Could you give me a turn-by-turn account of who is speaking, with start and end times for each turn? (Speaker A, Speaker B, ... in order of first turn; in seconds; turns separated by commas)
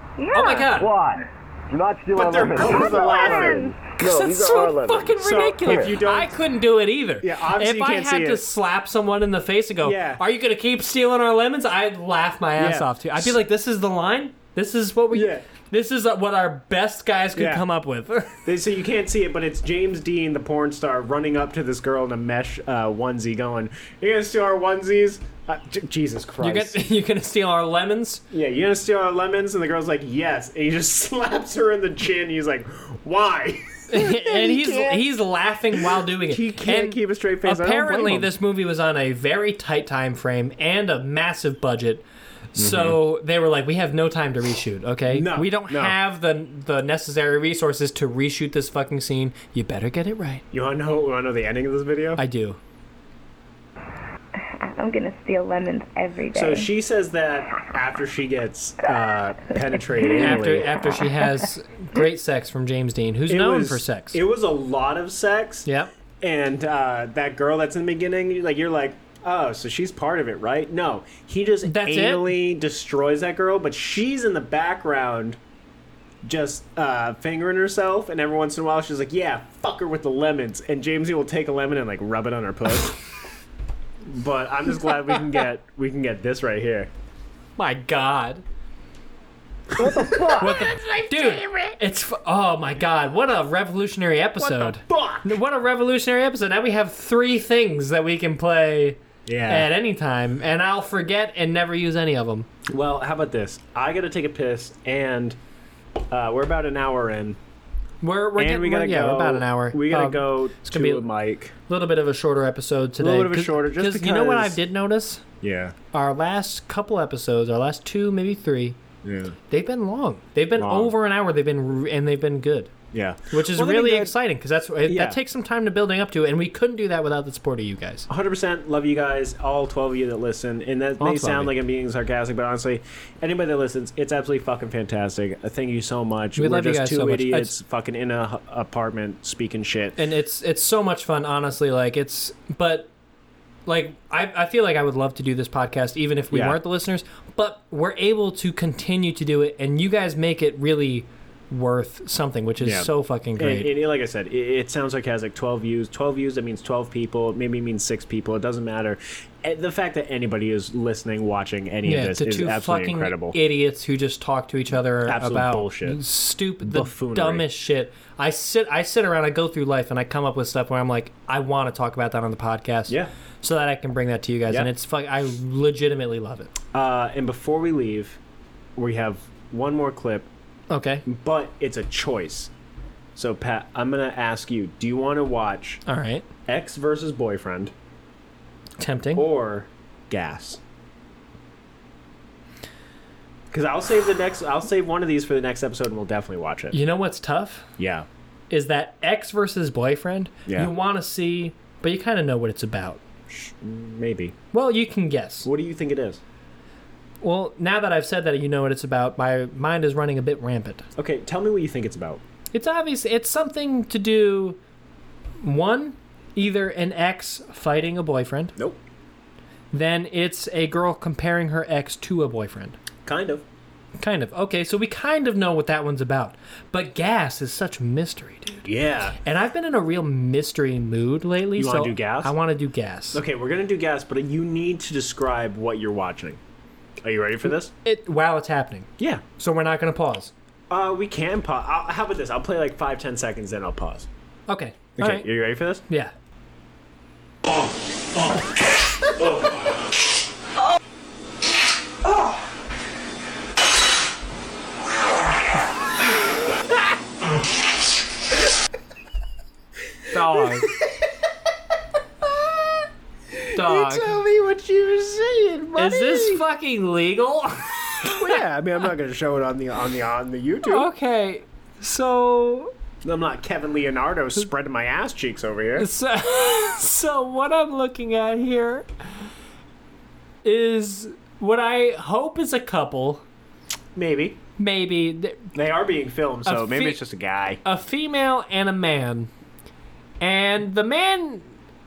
Speaker A: 0.2-0.9, Speaker B: 0.3-0.9, Speaker C: 0.7-6.0, Speaker D: 2.1-3.7, Speaker A: 2.6-3.8, Speaker B: 4.0-18.5, Speaker D: 5.2-6.3, Speaker D: 7.2-8.4, Speaker D: 9.8-10.2, Speaker D: 12.6-13.4, Speaker D: 15.1-15.5, Speaker D: 17.4-17.6, Speaker D: 18.4-26.8, Speaker B: 26.4-28.2, Speaker D: 28.3-35.1, Speaker B: 33.9-42.0, Speaker D: 35.7-38.3, Speaker B: 42.5-50.4, Speaker D: 42.6-43.0, Speaker D: 45.1-46.0, Speaker D: 50.5-52.2, Speaker B: 52.2-52.6, Speaker E: 54.6-56.7, Speaker D: 56.3-60.8, Speaker B: 60.1-64.2, Speaker D: 63.3-65.7, Speaker B: 65.7-65.9, Speaker D: 66.2-75.4, Speaker B: 71.6-72.4, Speaker D: 76.2-83.0, Speaker D: 84.0-86.9, Speaker B: 87.6-88.4, Speaker C: 89.8-90.5, Speaker D: 89.8-91.7, Speaker B: 90.4-102.5, Speaker D: 94.4-95.4, Speaker D: 99.3-99.7, Speaker D: 102.7-105.4, Speaker D: 106.1-107.4, Speaker B: 108.0-111.1, Speaker D: 108.4-111.5, Speaker B: 111.7-115.2, Speaker D: 113.0-114.6, Speaker D: 115.4-115.8, Speaker B: 115.9-118.8, Speaker D: 119.0-119.4, Speaker B: 119.5-122.7, Speaker D: 120.6-120.9, Speaker D: 122.9-124.2, Speaker B: 123.3-128.1, Speaker D: 124.8-125.2, Speaker D: 128.1-140.0, Speaker B: 131.0-131.5, Speaker B: 136.4-137.6, Speaker B: 140.0-142.9, Speaker B: 143.7-153.7, Speaker D: 146.3-146.6, Speaker D: 152.6-163.4, Speaker B: 161.8-176.5, Speaker D: 165.1-166.0, Speaker D: 166.6-167.5, Speaker D: 176.7-178.2, Speaker D: 178.8-180.3, Speaker B: 180.7-181.1, Speaker D: 181.1-182.5, Speaker D: 183.2-185.8, Speaker B: 185.9-186.3, Speaker D: 186.5-187.7, Speaker B: 188.8-189.3, Speaker D: 189.2-190.6, Speaker D: 193.5-196.8, Speaker B: 196.7-197.7, Speaker D: 197.8-198.1, Speaker B: 198.5-203.0, Speaker D: 200.5-200.7, Speaker D: 203.3-204.4, Speaker B: 204.5-205.5, Speaker D: 205.4-206.2, Speaker B: 207.2-210.9, Speaker D: 211.0-212.2, Speaker B: 212.5-214.6, Speaker B: 215.4-218.6, Speaker D: 218.6-218.8, Speaker B: 219.7-222.8, Speaker D: 223.1-223.4, Speaker B: 224.0-228.6, Speaker D: 228.6-229.2, Speaker B: 229.2-233.2, Speaker D: 231.6-232.3, Speaker D: 233.1-236.4, Speaker D: 237.0-237.7, Speaker B: 237.8-240.3, Speaker D: 239.0-239.2, Speaker D: 240.7-244.1, Speaker B: 244.5-245.3, Speaker D: 245.0-245.8, Speaker B: 245.9-246.1, Speaker B: 260.1-260.7, Speaker D: 263.3-266.4, Speaker B: 263.5-264.2, Speaker B: 265.8-268.3, Speaker D: 268.0-270.9, Speaker B: 270.6-272.7, Speaker D: 273.0-275.9, Speaker B: 275.8-278.9, Speaker B: 280.4-283.2, Speaker D: 283.9-284.4, Speaker B: 284.6-285.5, Speaker D: 285.5-287.6, Speaker B: 286.4-287.0, Speaker B: 287.6-289.3, Speaker B: 290.2-291.5